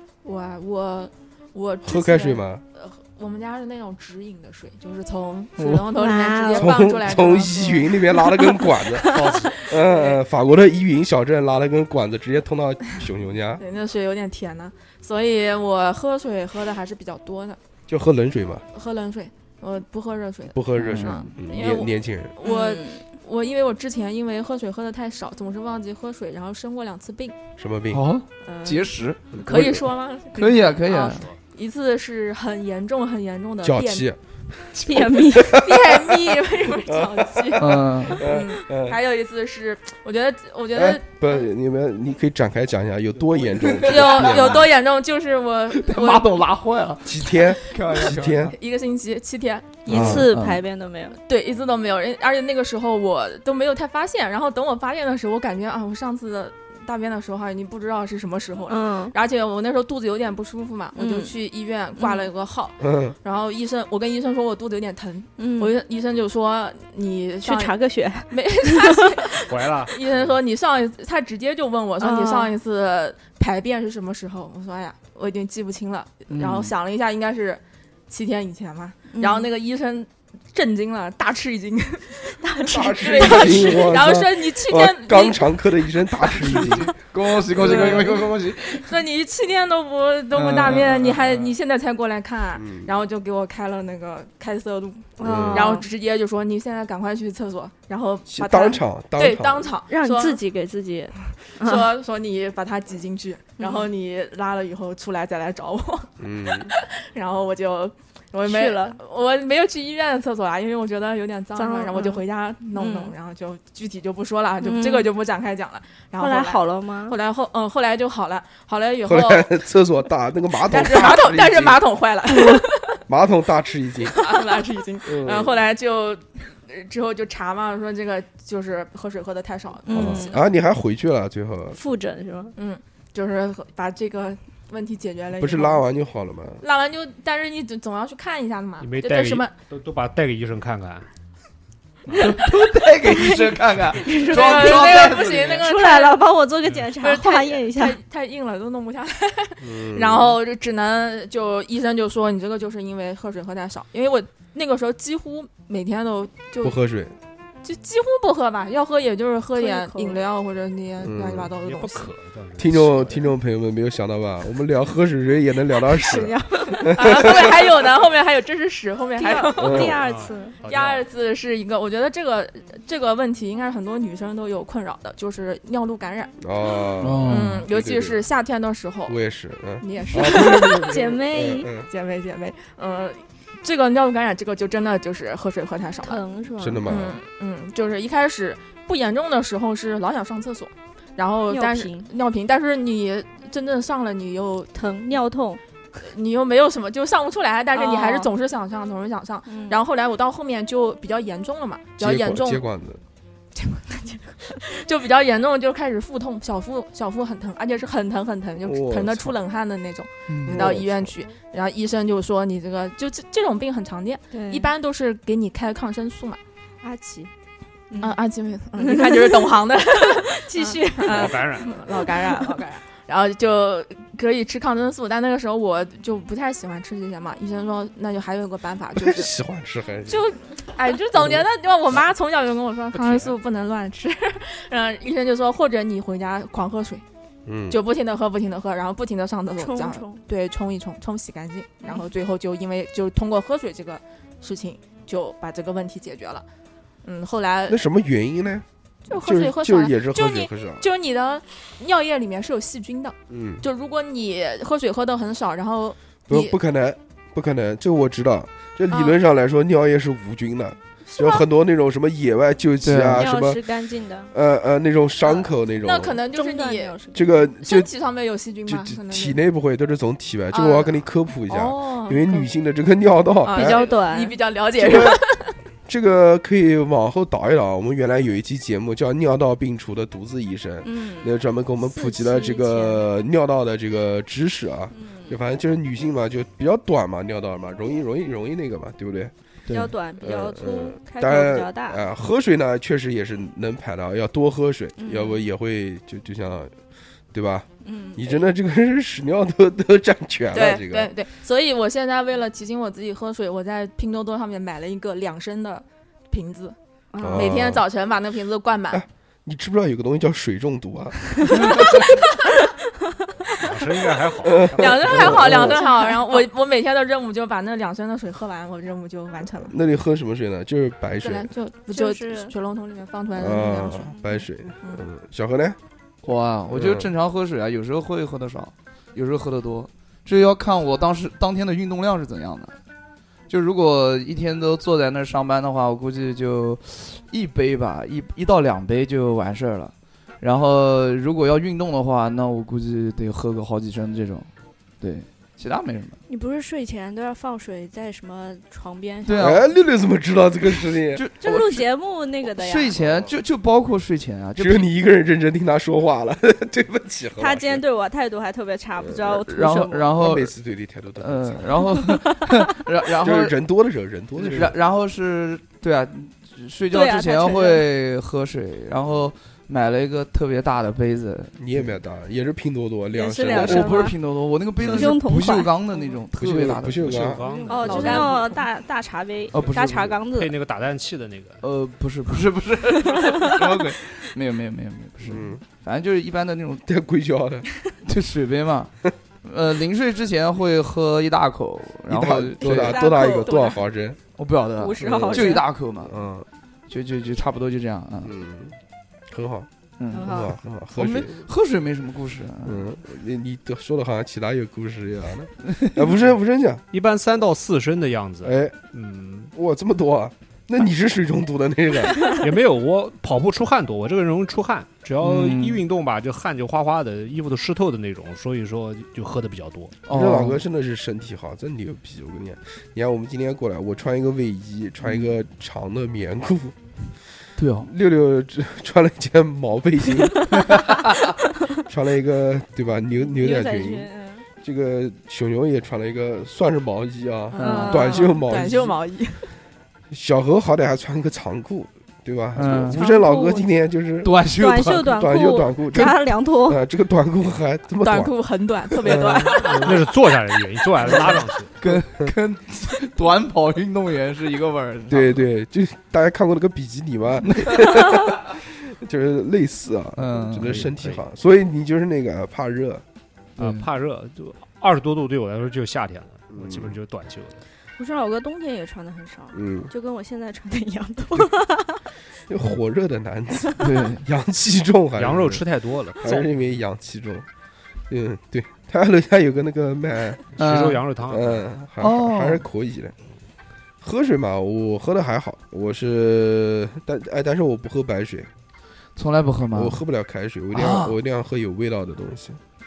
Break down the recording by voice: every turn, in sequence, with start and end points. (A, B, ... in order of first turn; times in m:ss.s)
0:00.2-0:08.0 A
0:01.8-0:02.6 B
0:05.6-0:05.8 C
0:06.0-0:06.7 D
0:06.5-0:13.6 B
0:08.5-0:09.4 D
0:09.1-0:09.5 E
0:09.8-0:10.2 A
0:13.6-0:17.6 A
0:17.9-0:18.6 B
0:18.7-0:27.4 A
0:20.5-0:22.3 B
0:20.8-0:21.3 C
0:22.4-0:23.0 D
0:27.6-0:28.1 B
0:27.9-0:29.8 C
0:28.4-0:34.1 A
0:29.3-0:29.8 B
0:30.3-0:31.3 C
0:33.6-0:39.0 B
0:34.8-0:35.6 D
0:35.5-0:41.1 A
0:37.6-0:38.3 C
0:40.7-0:44.7 B
0:43.6-0:44.6 C
0:43.8-0:46.3 A
0:45.7-0:48.5 C
0:47.0-0:48.6 B
0:48.5-0:49.8 A
0:49.8-0:51.2 D
0:49.9-0:50.3 B
0:49.9-0:50.6 C
0:51.2-1:07.7 A
0:58.7-0:59.1 D
1:00.9-1:01.3 D
1:02.0-1:02.3 D
1:02.8-1:03.2 B
1:05.4-1:05.7 D
1:07.4-1:09.1 D
1:08.3-1:25.7 A
1:09.4-1:10.0 E
1:12.0-1:12.5 D
1:16.3-1:16.7 C
1:19.1-1:19.5 D
1:22.4-1:23.7 D
1:22.7-1:26.9 B
1:26.4-1:28.9 C
1:27.5-1:28.1 B
1:27.6-1:40.4 A
1:30.3-1:31.5 C
1:32.6-1:32.9 B
1:35.2-1:35.7 B
1:35.2-1:35.8 D
1:38.3-1:39.7 B
1:39.9-1:41.9 D
1:41.6-1:59.5 A
1:43.6-1:43.9 D
1:46.2-1:46.7 B
1:48.4-1:49.0 D
1:51.6-1:52.2 D
1:52.7-1:53.1 D
1:54.6-1:55.1 D
1:56.2-1:57.2 D
1:59.0-2:01.8 B
2:00.6-2:03.0 A
2:02.4-2:04.2 B
2:04.1-2:10.4 A
2:05.0-2:05.6 B
2:09.8-2:10.4 D
2:09.9-2:11.8 B
2:11.7-2:12.5 D
2:12.6-2:15.8 A
2:15.4-2:16.6 B
2:16.6-2:19.5 A
2:18.8-2:21.1 E
2:22.1-2:22.4 E
2:22.2-2:25.6 C
2:23.0-2:28.0 D
2:24.2-2:26.2 A
2:27.0-2:36.8 A
2:29.6-2:30.4 B
2:36.6-2:37.2 B
2:37.6-2:42.1 A
2:39.6-2:40.2 D
2:41.0-2:41.5 B
2:41.5-2:43.3 E
2:42.6-2:47.5 B
2:45.8-2:47.6 D
2:46.8-2:49.9 A
2:49.2-2:50.6 D
2:49.6-2:50.0 B
2:49.9-2:51.0 E
2:50.7-2:56.3 A
2:56.4-2:58.2 B
2:57.0-2:57.6 C
2:57.2-2:59.2 A
2:59.1-3:01.9 B
2:59.8-3:01.1 A
3:00.1-3:01.7 D
3:01.8-3:06.2 A
3:06.0-3:06.8 D
3:06.6-3:07.2 B
3:06.8-3:14.7 A
3:11.5-3:12.1 D
3:14.7-3:15.6 D
3:16.0-3:22.6 A
3:17.7-3:18.3 D
3:19.5-3:19.8 D
3:22.0-3:23.0 B
3:23.6-3:36.4 A
3:28.6-3:29.4 B
3:30.3-3:30.6 C
3:30.4-3:31.1 B
3:34.3-3:34.7 D
3:36.8-3:37.3 D
3:37.9-3:38.2 D
3:38.0-3:49.3 A
3:38.8-3:42.5 D
3:41.1-3:41.8 E
3:49.0-3:50.2 B
3:50.1-3:57.0 A
3:52.9-3:53.3 E
3:57.4-3:57.8 B
3:57.7-4:06.4 A
3:59.6-4:00.2 D
4:07.0-4:07.8 A
4:07.7-4:10.8 B
4:09.1-4:16.6 A
4:13.3-4:13.6 B
4:16.3-4:23.6 B
4:18.9-4:19.2 A
4:21.1-4:21.4 A
4:22.8-4:23.2 C
4:23.1-4:24.3 D
4:24.3-4:26.2 B
4:25.8-4:27.0 A
4:26.3-4:27.3 D
4:27.1-4:27.9 B
4:27.6-4:29.4 A
4:28.6-4:33.8 B
4:30.5-4:32.5 A
4:33.4-4:35.5 A
4:33.5-4:34.4 D
4:34.8-4:35.2 B
4:35.9-4:49.3 B
4:40.8-4:43.0 D
4:44.9-4:45.4 D
4:49.7-4:49.9 C
4:49.7-4:52.0 D
4:50.2-4:56.7 B
4:55.0-4:55.4 D
4:57.3-5:01.1 B
4:57.8-4:58.4 D
5:00.5-5:06.8 A
5:07.1-5:07.6 D
5:07.2-5:07.8 B
5:07.3-5:09.0 A
5:08.9-5:12.0 B
5:11.9-5:12.3 A
5:13.6-5:15.6 E
5:14.4-5:15.8 B
5:14.8-5:19.7 A
5:19.6-5:21.5 B
5:21.2-5:24.1 A
5:21.9-5:22.5 D
5:23.4-5:25.8 B
5:24.1-5:24.4 D
5:26.2-5:32.8 C
5:26.7-5:27.1 B
5:33.5-5:44.5 C
5:45.0-5:46.2 C
5:46.3-5:49.6 D
5:49.2-5:49.7 C
5:49.4-5:51.2 B
5:51.1-5:51.8 C
5:51.4-5:53.0 D
5:52.4-5:54.8 C
5:53.0-5:53.3 B
5:54.6-5:57.8 B
5:57.4-6:00.1 D
5:59.0-5:59.4 B
5:59.5-6:00.5 C
6:00.1-6:01.8 B
6:01.2-6:03.5 C
6:02.0-6:02.4 D
6:03.2-6:04.8 B
6:04.4-6:11.9 C
6:06.9-6:07.9 D
6:11.6-6:14.1 B
6:13.1-6:14.2 D
6:13.5-6:17.2 C
6:14.8-6:15.1 B
6:14.8-6:16.2 D
6:16.4-6:17.4 B
6:17.0-6:18.4 E
6:17.5-6:20.5 D
6:17.7-6:18.6 A
6:19.5-6:20.2 C
6:20.3-6:21.6 E
6:21.6-6:26.8 C
6:23.1-6:23.8 D
6:25.2-6:25.6 B
6:26.8-6:27.7 B
6:28.0-6:33.0 C
6:32.1-6:34.2 B
6:32.6-6:33.8 D
6:34.4-6:36.2 C
6:34.8-6:35.6 D
6:35.1-6:36.5 B
6:36.9-6:38.3 C
6:38.2-6:38.8 B
6:39.3-6:41.4 B
6:40.0-6:42.9 C
6:40.1-6:40.5 D
6:42.6-6:46.8 B
6:46.9-6:49.5 E
6:48.4-6:48.8 B
6:49.5-6:52.3 B
6:52.4-6:59.9 E
6:55.2-6:55.8 C
7:00.0-7:00.6 C
7:00.1-7:06.8 B
7:05.0-7:05.3 C
7:07.6-7:07.9 C
7:07.8-7:10.7 B
7:10.6-7:11.2 C
7:11.8-7:14.1 B
7:13.3-7:14.4 D
7:14.6-7:19.0 B
7:17.5-7:19.5 A
7:17.6-7:18.1 C
7:17.6-7:18.4 D
7:20.1-7:24.4 B
7:22.5-7:23.0 C
7:22.6-7:23.7 D
7:24.2-7:25.2 C
7:24.6-7:26.8 D
7:25.0-7:28.3 B
7:28.0-7:29.9 A
7:29.0-7:29.8 B
7:29.4-7:31.8 E
7:31.0-7:35.4 C
7:35.1-7:43.0 B
7:37.4-7:38.1 C
7:40.2-7:40.9 C
7:40.6-7:41.2 E
7:43.6-7:43.9 C
7:43.6-7:47.6 E
7:46.5-7:47.0 B
7:48.0-7:52.0 D
7:49.5-7:49.9 B
7:52.5-7:55.6 B
7:53.8-7:54.2 C
7:55.2-7:56.5 E
7:56.2-7:57.5 B
7:58.1-8:00.4 B
8:00.5-8:01.7 E
8:00.6-8:01.0 C
8:01.3-8:03.1 B
8:02.0-8:02.6 C
8:04.0-8:08.5 B
8:09.2-8:10.0 C
8:09.7-8:12.6 B
8:10.7-8:11.1 C